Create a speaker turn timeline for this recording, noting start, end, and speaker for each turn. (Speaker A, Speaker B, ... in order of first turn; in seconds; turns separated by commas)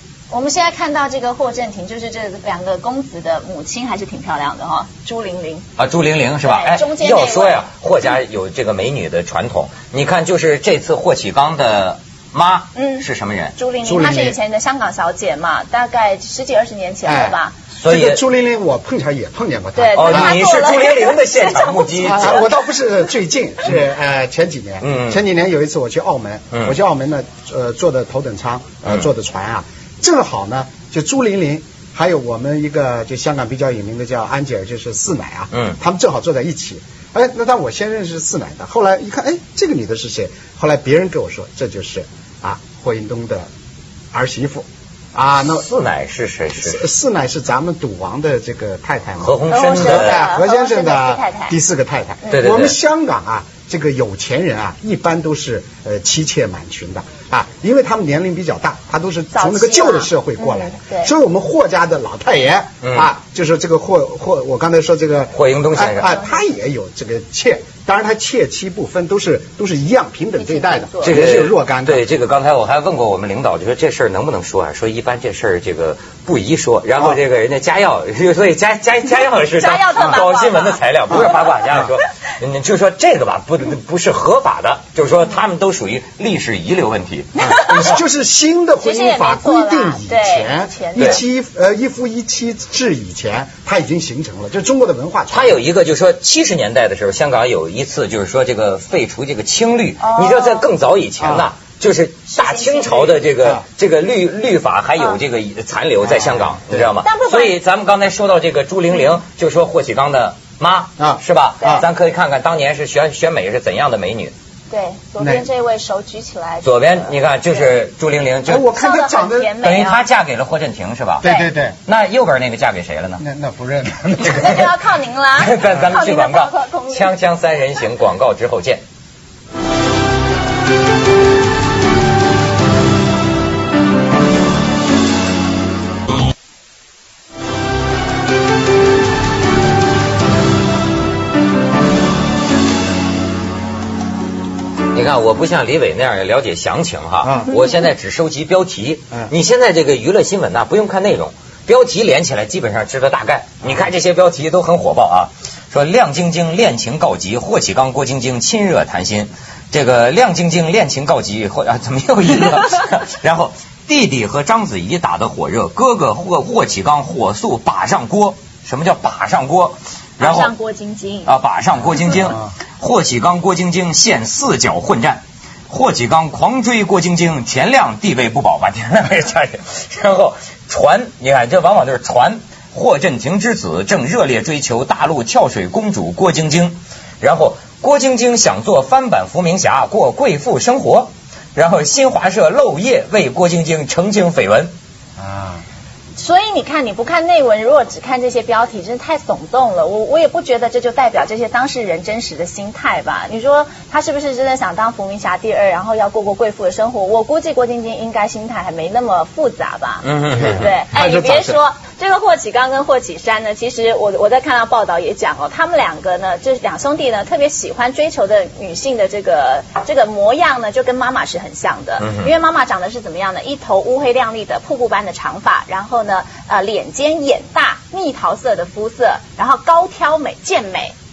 Speaker A: 0.3-5.7, Speaker B: 5.8-13.5, Speaker A: 6.4-7.6, Speaker A: 12.8-13.0, Speaker A: 13.6-17.5, Speaker C: 13.8-14.4, Speaker C: 17.1-20.4, Speaker B: 17.8-18.2, Speaker A: 19.8-22.4, Speaker B: 19.9-22.5, Speaker C: 22.0-43.5, Speaker B: 24.8-25.2, Speaker B: 35.5-35.8, Speaker C: 44.1-45.7, Speaker B: 45.6-46.8, Speaker C: 46.6-72.0, Speaker B: 49.2-50.2, Speaker A: 49.5-51.5, Speaker B: 52.3-52.8, Speaker A: 59.3-61.1, Speaker B: 62.8-63.1, Speaker B: 65.3-66.2, Speaker A: 70.4-71.2, Speaker B: 71.0-88.0, Speaker A: 79.6-80.8, Speaker C: 87.4-95.6, Speaker A: 87.4-88.0, Speaker A: 88.8-91.2, Speaker B: 95.3-114.3, Speaker A: 100.0-100.7, Speaker C: 101.2-101.5, Speaker A: 102.3-103.2, Speaker C: 106.1-106.9, Speaker A: 107.0-107.5, Speaker C: 111.0-111.9, Speaker A: 114.7-117.1, Speaker C: 115.2-115.5, Speaker B: 116.6-118.7, Speaker C: 118.5-119.5, Speaker A: 118.7-120.0, Speaker B: 119.6-121.2, Speaker C: 121.2-121.8, Speaker A: 121.2-121.5, Speaker B: 121.9-123.2, Speaker C: 123.2-124.6, Speaker A: 124.2-127.1, Speaker B: 124.2-124.7, Speaker B: 125.4-128.8, Speaker B: 144.9-170.5, Speaker C: 147.2-147.5, Speaker A: 170.2-171.3, Speaker B: 171.3-194.7, Speaker C: 195.2-195.6, Speaker A: 196.2-230.9, Speaker B: 210.0-210.7, Speaker C: 210.4-211.6, Speaker B: 222.0-222.3